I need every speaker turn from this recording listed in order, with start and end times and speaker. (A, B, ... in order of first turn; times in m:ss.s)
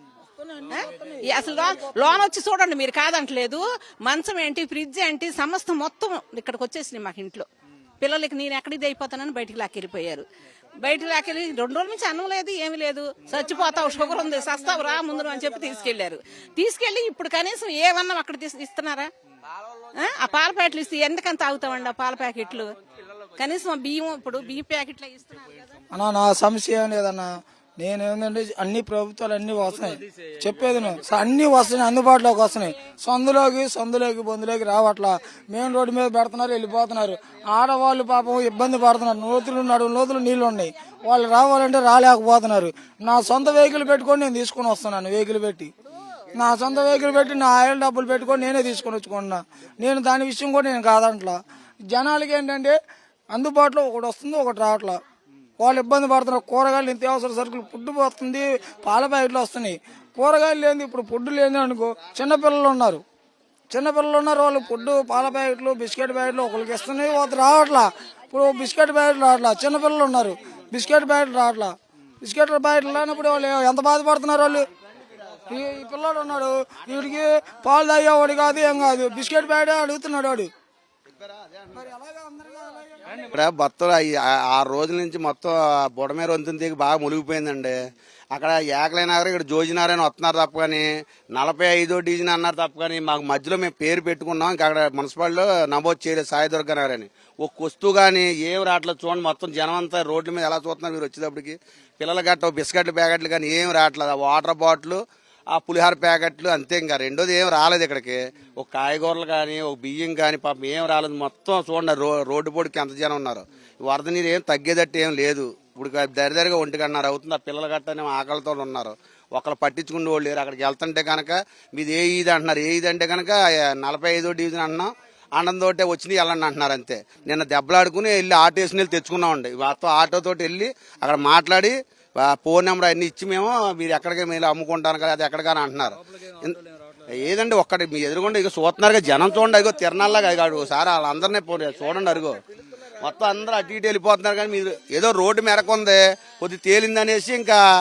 0:00.4-0:02.2 A
0:00.7-0:07.5 B
0:08.0-0:10.2 B
0:10.8-0:19.1 B
0:20.0-0:22.7 B
0:23.4-0:25.8 B
0:25.9-0:45.7 A
0:46.3-0:52.8 A
0:53.3-0:55.0 A
0:55.6-1:03.0 A
1:03.7-1:14.7 A
1:15.5-1:20.5 A
1:21.2-1:21.8 C
1:21.8-1:23.2 A
1:23.3-1:27.8 C
1:28.3-2:16.6 C
2:17.2-2:22.4 C
2:23.0-2:27.6 C